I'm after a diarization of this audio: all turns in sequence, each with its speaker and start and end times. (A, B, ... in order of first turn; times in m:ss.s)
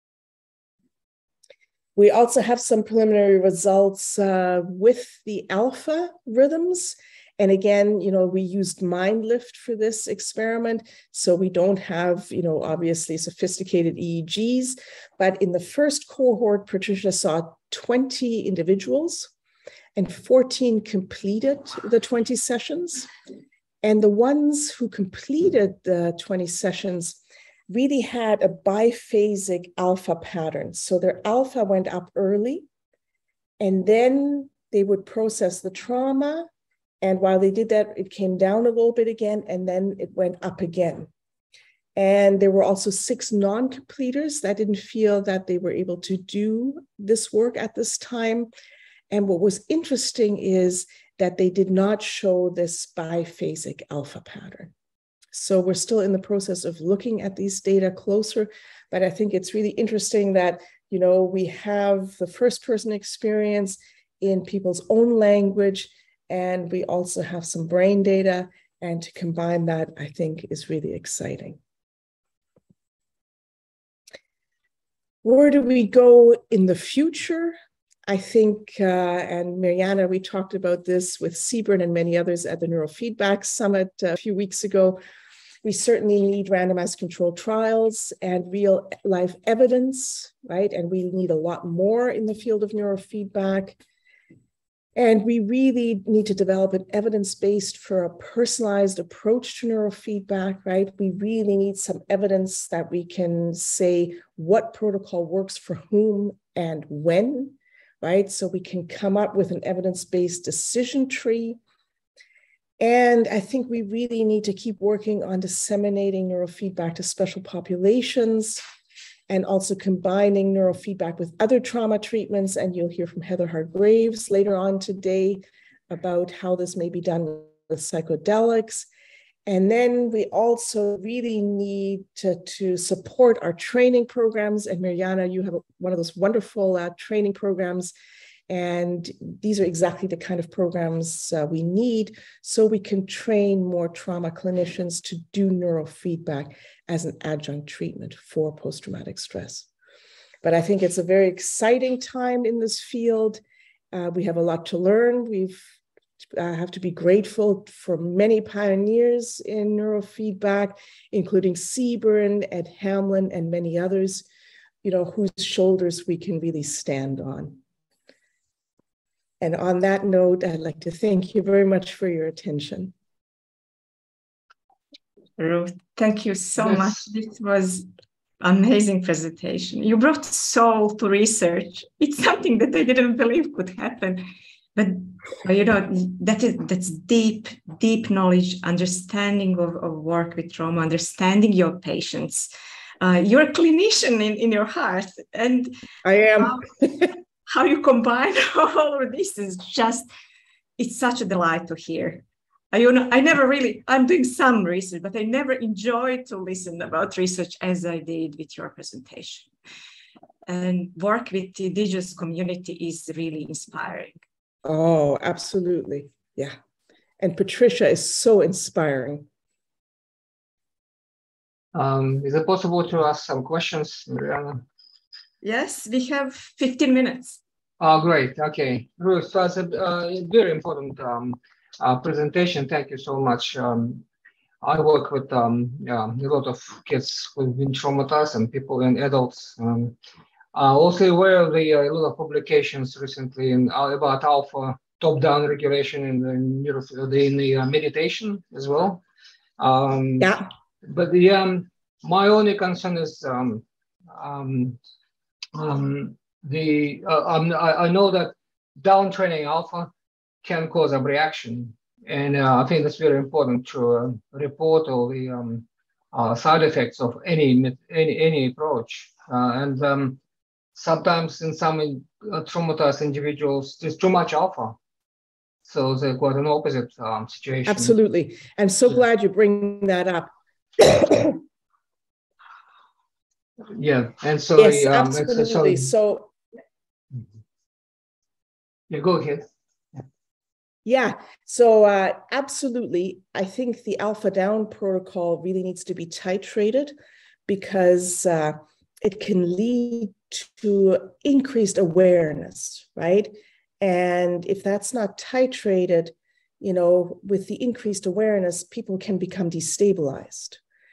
0:02.0-0:19.3 A
0:20.0-0:23.1 A
0:23.8-0:32.6 A
0:33.6-0:36.5 A
0:37.0-0:41.1 A
0:42.0-0:48.5 A
0:49.1-0:54.7 A
0:55.3-1:11.6 A
1:15.2-1:17.6 A
1:18.1-1:25.0 A
1:25.6-1:33.8 A
1:35.0-1:51.6 A
1:52.8-1:58.6 A
1:59.3-2:08.9 A
2:09.5-2:17.9 A
2:18.5-2:29.7 A
2:30.4-2:33.4 A
2:33.9-2:35.7 A
2:36.4-2:44.3 A
2:44.8-2:47.6 A
2:49.4-2:52.9 A
2:55.4-2:57.8 B
2:56.6-2:57.0 C
2:58.4-3:15.7 B
3:16.0-3:17.1 A
3:16.4-3:16.7 B
3:17.5-3:20.1 B
3:20.8-3:29.5 B
3:30.5-3:34.2 B
3:34.6-3:36.6 A
3:37.2-3:39.3 A
3:41.7-3:44.6 C
3:45.4-3:47.4 B
3:47.8-3:54.0 C
3:54.6-4:00.0 C
4:00.5-4:09.0 C
4:09.6-4:14.8 C
4:10.2-4:10.5 A
4:15.5-4:19.9 C
4:20.4-4:30.2 C
4:30.8-4:34.8 C
4:35.7-4:38.0 C
4:37.7-4:41.4 A
4:43.8-4:45.9 C
4:44.6-4:46.3 A
4:48.9-4:49.4 C
4:50.8-4:57.0 A
4:57.5-5:10.6 A